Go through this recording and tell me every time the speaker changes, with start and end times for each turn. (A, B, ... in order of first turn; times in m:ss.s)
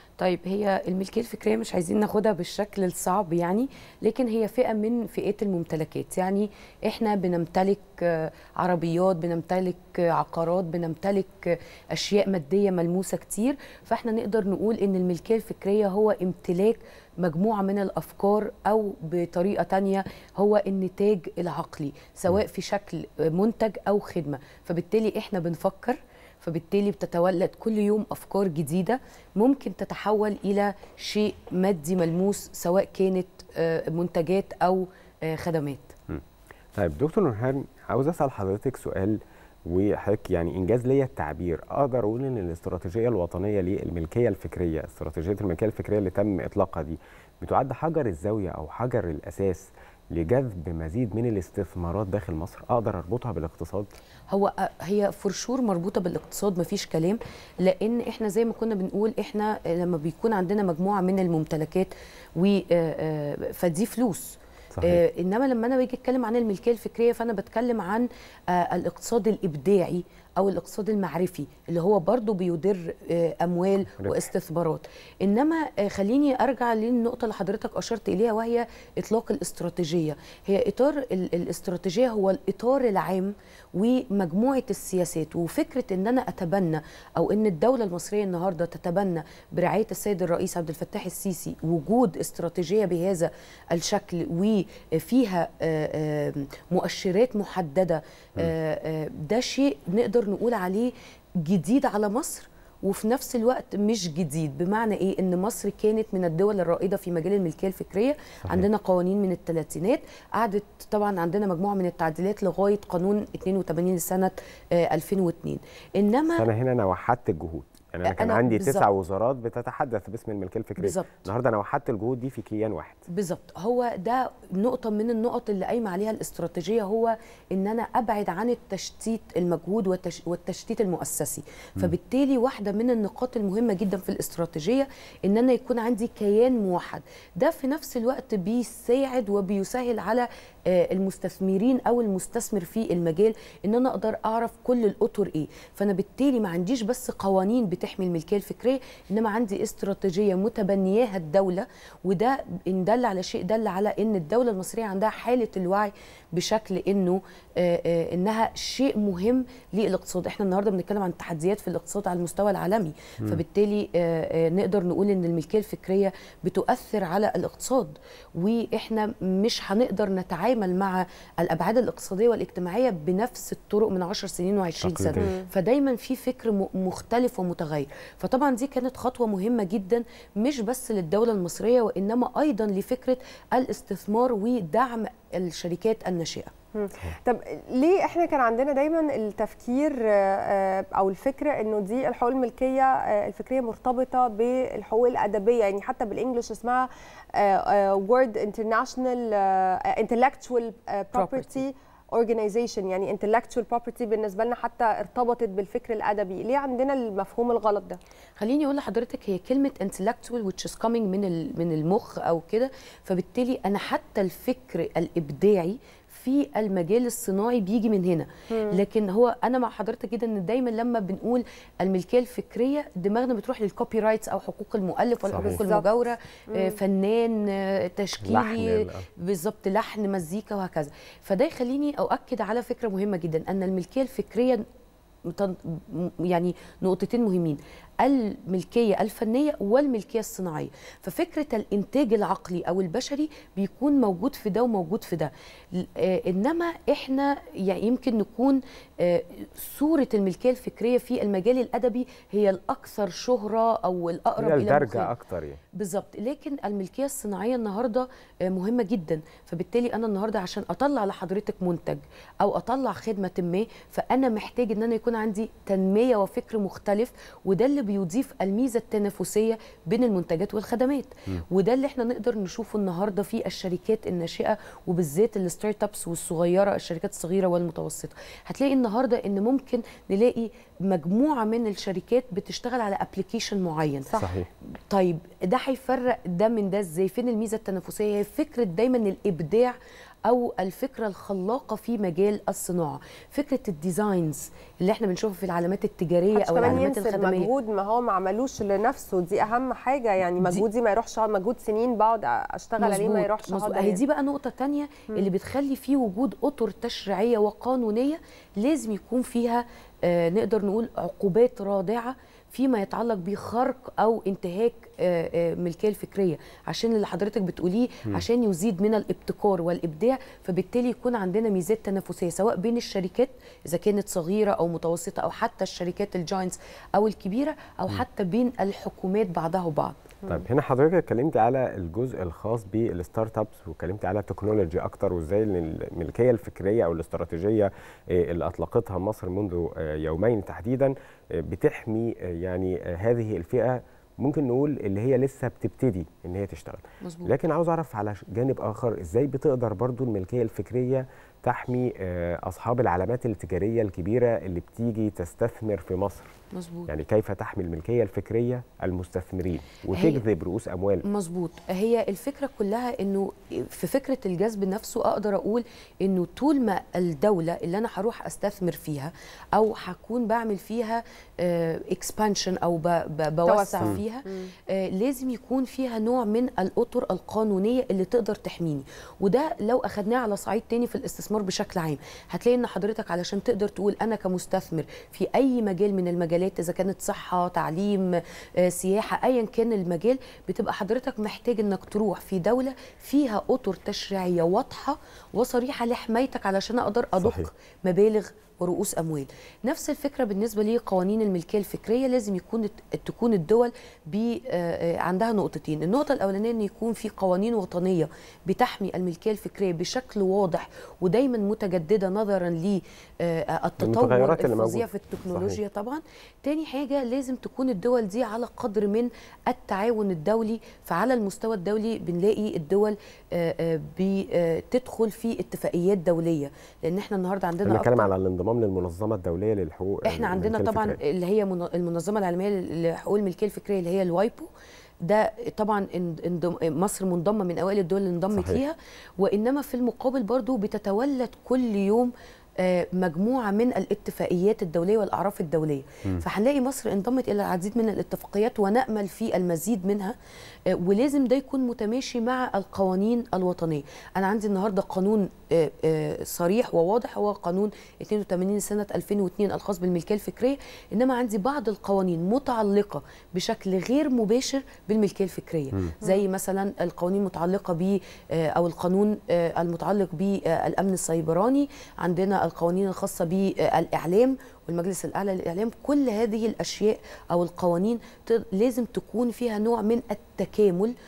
0:00.2-0:35.9 A
0:36.8-0:53.9 B
0:54.3-1:40.9 A
1:04.7-1:05.0 B
1:41.4-1:56.4 A
1:56.4-2:03.0 B
1:58.0-1:58.9 A
2:00.8-2:01.3 A
2:03.1-3:06.5 A
2:54.8-2:55.3 B
2:55.2-2:55.5 C
3:06.7-3:28.0 C
3:21.1-3:21.6 A
3:28.4-3:54.6 A
3:38.5-3:38.8 C
3:45.3-3:45.6 B
3:45.4-3:45.9 C
3:48.2-3:49.0 B
3:55.3-4:15.1 A
4:14.4-4:15.6 B
4:15.7-4:44.1 A
4:44.2-4:44.5 B
4:44.9-4:49.8 A
4:50.3-4:57.5 A
4:56.3-5:04.0 C
5:02.8-5:30.0 A
5:30.3-5:56.3 B
5:47.0-5:47.3 A
5:56.5-5:56.9 A
5:56.9-6:01.0 B
5:59.9-6:00.2 A
6:01.0-7:08.1 A
6:13.4-6:14.5 C
6:37.2-6:37.5 B
6:53.8-6:55.6 B
7:07.6-7:11.0 B
7:10.0-7:14.5 A
7:15.0-7:30.1 A
7:18.3-7:18.6 B
7:30.7-8:00.9 A